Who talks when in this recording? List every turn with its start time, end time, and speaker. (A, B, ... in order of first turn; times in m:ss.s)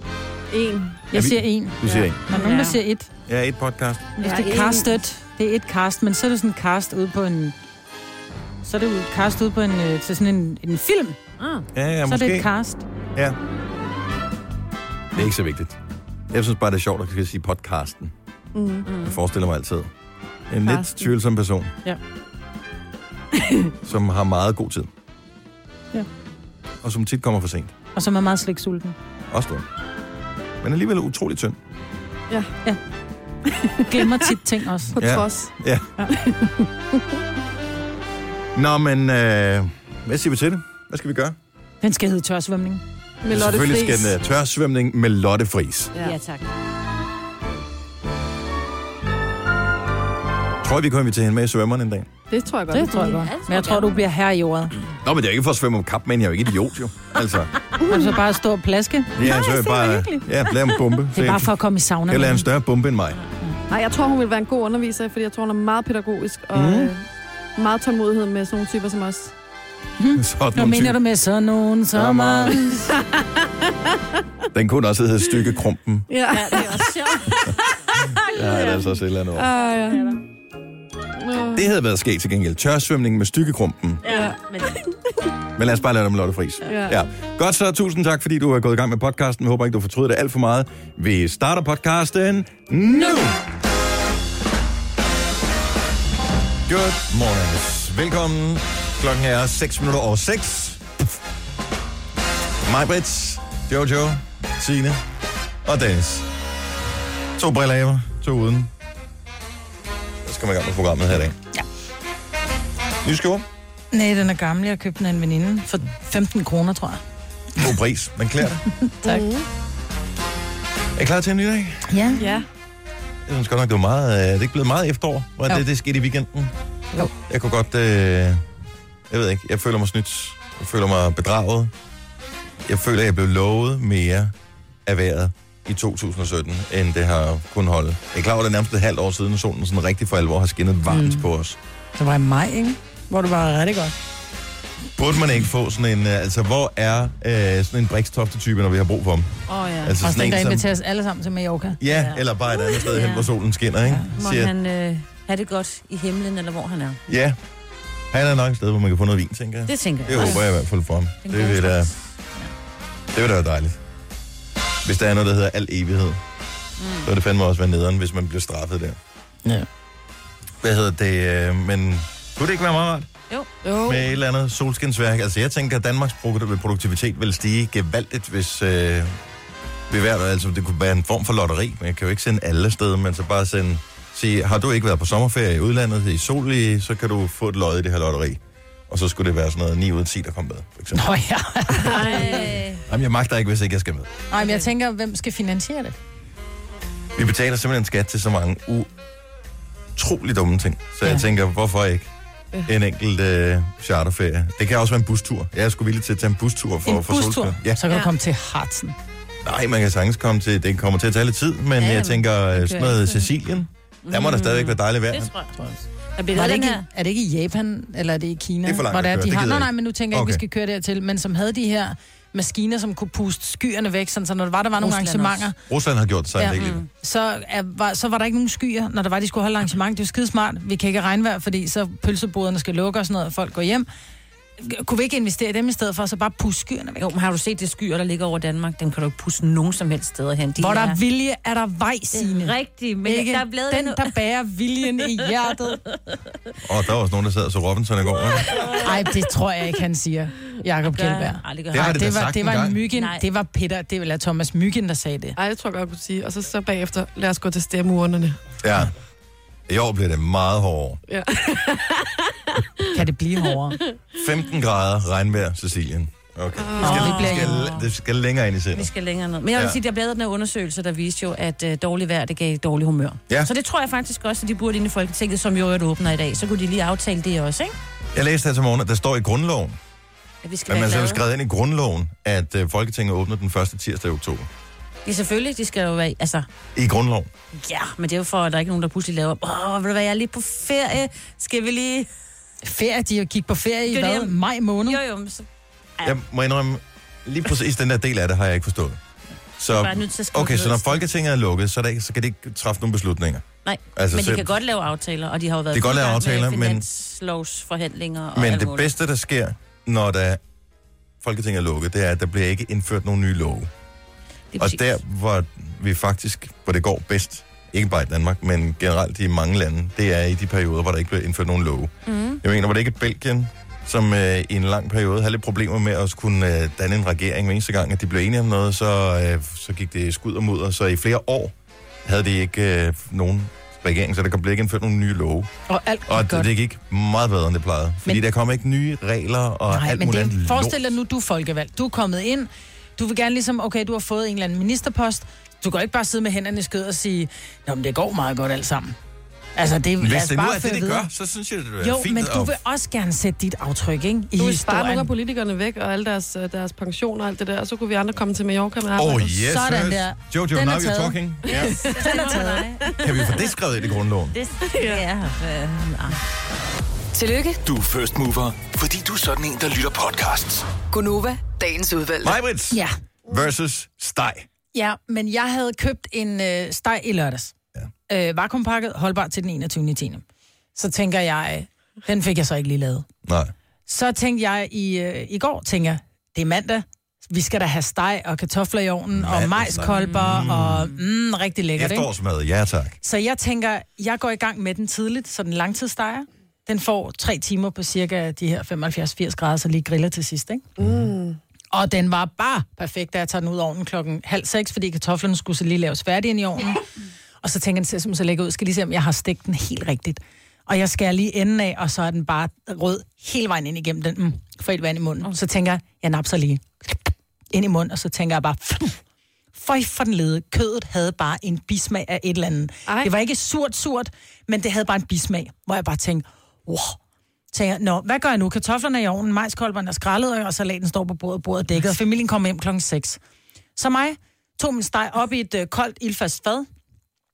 0:00.5-0:01.1 A
0:01.1-0:03.1 B
0:01.1-0:02.2 C
0:02.3-0:02.8 D
0:03.3-0:04.2 C
0:04.2-0:07.6 B
0:04.2-0:04.9 A
0:08.6-0:11.2 B
0:11.4-0:11.6 D
0:11.7-0:12.5 C
0:12.1-0:12.8 B
0:15.2-0:15.8 C
0:16.3-0:18.1 C
0:18.6-0:18.9 A
0:18.8-0:19.2 D
0:19.0-0:19.9 C
0:20.5-0:21.7 C
0:23.8-0:24.9 C
0:26.8-0:27.7 C
0:28.0-0:29.0 B
0:29.3-0:29.6 C
0:30.6-0:31.6 C
0:33.5-0:35.1 B
0:35.0-0:35.6 A
0:35.0-0:35.9 C
0:36.0-0:36.4 B
0:38.6-0:41.4 C
0:41.8-0:42.8 B
0:43.2-0:44.1 A
0:43.3-0:45.9 C
0:46.0-0:46.4 D
0:50.6-0:52.1 C
0:52.3-0:53.3 A
0:52.7-0:54.7 B
0:53.1-0:54.0 D
0:55.0-0:57.5 C
0:57.8-0:58.2 A
0:57.9-1:00.3 B
0:59.2-1:01.5 C
1:01.1-1:02.5 B
1:02.1-1:03.2 C
1:03.7-1:07.0 A
1:06.5-1:06.9 C
1:07.6-1:09.3 A
1:10.0-1:12.9 B
1:10.2-1:11.0 C
1:12.0-1:12.6 C
1:12.8-1:13.9 A
1:14.5-1:16.1 C
1:16.1-1:17.2 A
1:16.3-1:18.9 D
1:18.3-1:19.5 C
1:19.4-1:20.1 A
1:19.6-1:20.2 D
1:21.2-1:21.7 A
1:21.5-1:24.0 C
1:24.0-1:24.8 D
1:24.1-1:25.3 A
1:25.6-1:33.4 C
1:26.7-1:27.0 A
1:36.7-1:40.8 C
1:42.6-1:45.0 C
1:45.6-1:46.3 C
1:47.4-1:48.7 C
1:50.2-1:51.4 C
1:53.0-1:53.5 C
1:53.9-1:57.0 B
1:57.6-1:58.6 C
1:58.7-1:59.2 B
1:59.0-1:59.5 A
2:01.0-2:01.9 C
2:01.9-2:02.3 B
2:02.2-2:02.5 A
2:03.3-2:06.5 C
2:07.1-2:08.4 C
2:09.1-2:11.7 C
2:12.6-2:14.3 C
2:14.8-2:21.6 C
2:20.9-2:21.2 B
2:22.0-2:24.0 B
2:25.0-2:30.7 C
2:29.5-2:30.0 D
2:30.0-2:31.8 B
2:31.8-2:34.5 C
2:31.9-2:33.3 D
2:34.1-2:37.0 D
2:37.1-2:37.4 C
2:38.1-2:41.9 C
2:39.7-2:40.5 D
2:41.2-2:42.5 D
2:43.1-2:43.8 C
2:44.8-2:46.2 C
2:46.8-2:47.1 D
2:47.0-2:49.0 C
2:50.6-2:53.1 C
2:53.6-2:54.1 A
2:53.9-2:59.2 C
2:59.9-3:11.1 C
3:10.9-3:12.4 B
3:11.9-3:12.8 D
3:12.9-3:14.1 C
3:14.3-3:16.0 B
3:14.4-3:14.7 D
3:17.2-3:18.9 C
3:20.0-3:22.1 C
3:22.7-3:27.8 C
3:26.9-3:29.0 B
3:29.4-3:35.3 C
3:31.8-3:32.2 D
3:32.6-3:33.2 B
3:34.0-3:35.6 D
3:35.6-3:45.6 B
3:36.3-3:36.8 D
3:38.6-3:40.4 C
3:44.8-3:45.5 D
3:45.7-3:46.8 C
3:46.4-3:53.9 B
3:46.5-3:46.9 D
3:54.6-3:57.1 B
3:57.0-4:01.0 D
4:00.6-4:05.8 B
4:02.1-4:04.1 D
4:06.6-4:08.6 C
4:08.4-4:09.2 D
4:08.8-4:15.4 B
4:10.9-4:12.0 D
4:11.7-4:12.8 C
4:12.9-4:13.2 D
4:15.4-4:18.5 A
4:18.6-4:18.9 C
4:19.7-4:21.0 C
4:21.1-4:22.8 A
4:22.9-4:23.8 B
4:24.2-4:28.9 C
4:26.6-4:27.2 A
4:26.8-4:27.7 B
4:26.9-4:27.8 D
4:28.7-4:37.8 D
4:29.5-4:29.8 C
4:38.1-4:39.8 C
4:40.4-4:41.2 D
4:40.7-4:44.5 C
4:45.0-4:46.5 D
4:46.8-4:47.3 C
4:48.0-4:52.1 D
4:52.6-4:55.0 B
4:53.9-4:55.4 D
4:56.0-4:59.0 C
4:59.6-5:04.5 C
4:59.6-5:01.1 D
5:03.6-5:08.9 D
5:05.7-5:06.8 C
5:08.4-5:10.4 C
5:11.2-5:13.7 C
5:14.5-5:14.9 D
5:14.6-5:31.5 C
5:22.1-5:22.4 D
5:32.0-5:35.5 C
5:35.7-5:36.5 B
5:36.1-5:41.0 C
5:39.7-5:49.0 B
5:49.6-5:51.1 B
5:50.0-5:52.6 C
5:51.8-5:55.1 B
5:54.4-5:59.2 A
5:59.0-6:01.7 C
5:59.2-6:02.7 B
6:01.8-6:03.0 D
6:03.0-6:04.4 C
6:04.3-6:06.2 D
6:04.7-6:05.0 A
6:07.1-6:07.6 E
6:07.6-6:10.7 F
6:10.8-6:12.4 E
6:12.2-6:14.5 C
6:14.7-6:17.5 B
6:18.1-6:20.2 B
6:20.8-6:23.1 B
6:23.2-6:23.5 C
6:23.9-6:32.1 B
6:29.1-6:30.9 C
6:29.9-6:30.8 D
6:31.8-6:33.0 C
6:33.0-6:40.8 B
6:40.8-6:41.1 C
6:40.9-6:41.4 A
6:41.7-6:46.8 B
6:47.4-6:57.0 B
6:57.5-6:59.0 B
6:59.6-7:07.0 B
7:02.9-7:03.1 A
7:07.5-7:13.2 B
7:13.8-7:16.7 B